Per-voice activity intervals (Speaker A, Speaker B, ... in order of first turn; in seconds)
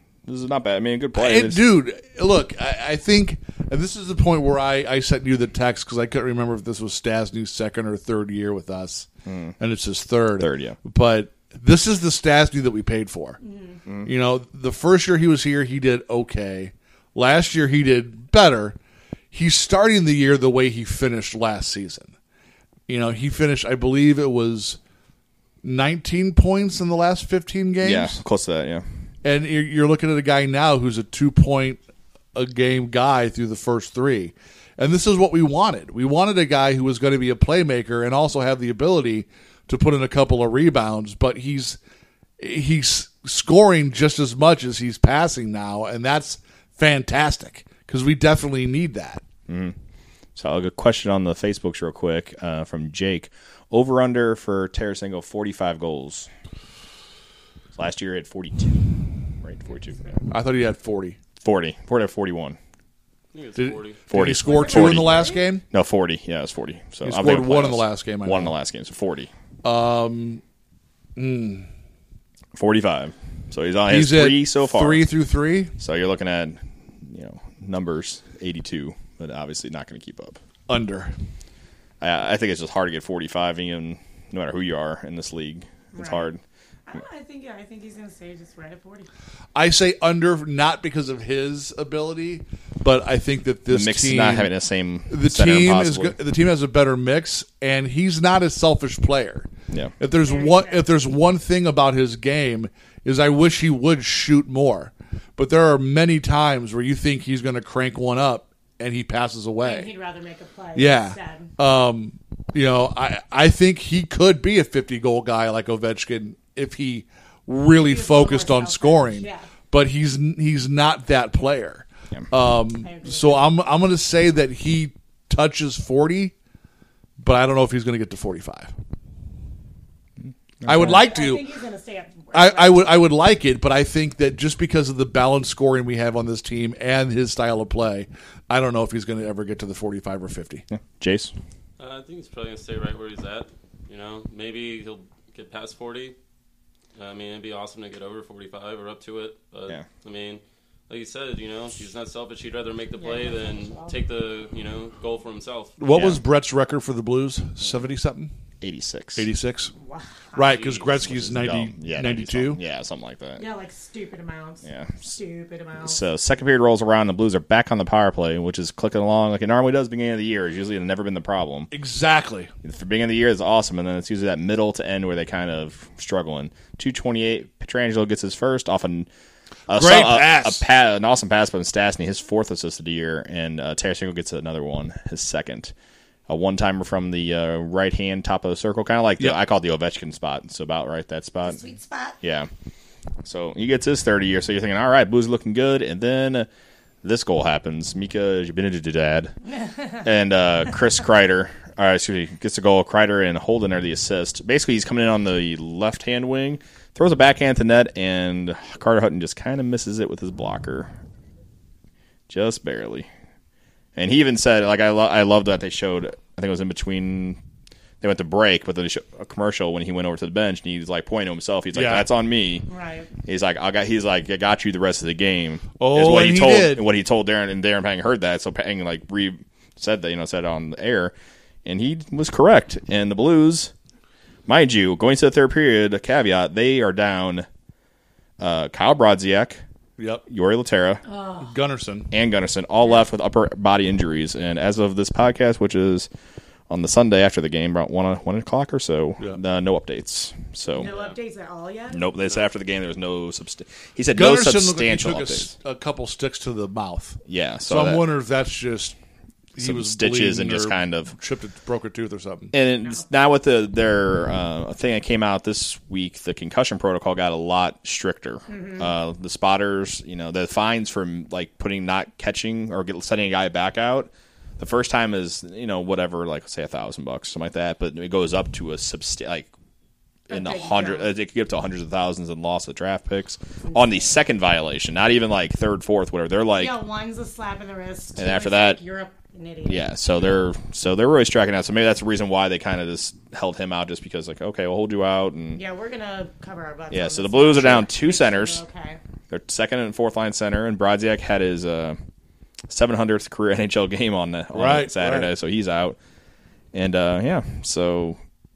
Speaker A: 0.2-1.6, 9.2-9.5, 10.4-10.8, 27.8-28.8, 49.5-49.7, 50.3-56.3, 57.7-58.8, 59.4-60.0, 61.4-62.6, 64.1-65.2, 65.7-69.3, 72.5-75.0, 75.8-80.4, 82.0-86.4, 93.7-96.2, 130.6-131.0, 140.7-141.3, 155.9-156.2, 158.6-159.3, 160.9-163.4, 164.6-165.1, 165.8-171.7, 172.6-179.1, 179.7-185.7, 186.3-191.6, 192.2-192.5, 193.2-196.5, 197.0-199.3, 200.0-210.9, 212.3-213.1, 213.9-217.4, 218.0-222.7, 223.2-231.1, 231.6-233.7, 234.5-237.5, 238.4-239.6, 240.3-241.0, 242.1-246.1, 246.7-250.9, 251.9-255.5, 257.3-258.0, 259.6-261.1, 262.5-279.5, 280.3-286.7, 288.2-288.8, 289.7-295.6, 296.9-298.6, 299.3-302.0, 302.7-306.0, 306.7-308.2
Speaker B: 1.1-13.4, 14.0-18.8, 19.3-22.1, 22.9-24.8, 25.6-28.2, 29.2-31.8, 32.3-41.8, 42.4-49.2, 60.3-61.2, 63.6-65.6, 67.0-68.5, 69.6-70.4, 71.2-71.7, 73.9-75.7, 80.7-81.1, 89.5-94.5, 95.1-109.9, 110.7-126.3, 127.2-128.7, 130.6-131.4, 132.3-140.6, 155.8-158.3, 159.2-159.7, 160.3-162.6, 171.7-172.5, 179.7-180.6, 221.7-222.1, 225.8-226.8, 240.0-240.2, 241.4-242.1, 254.1-258.9, 259.5-262.5, 304.5-305.3
Speaker C: 13.4-13.8, 59.7-60.2, 64.2-65.5, 85.9-86.3, 86.9-89.1, 100.2-100.9, 109.6-111.5, 117.8-119.5, 122.8-123.5, 130.7-133.0, 152.9-153.9, 159.8-160.6, 163.4-166.0, 191.4-192.2, 199.5-200.0, 222.7-223.1, 241.0-241.5, 250.7-252.1, 268.5-268.9, 280.3-281.1, 283.7-284.2, 286.6-289.9, 295.5-299.0
Speaker D: 63.3-64.0, 141.8-146.1, 146.9-155.8, 160.4-160.9, 250.8-251.2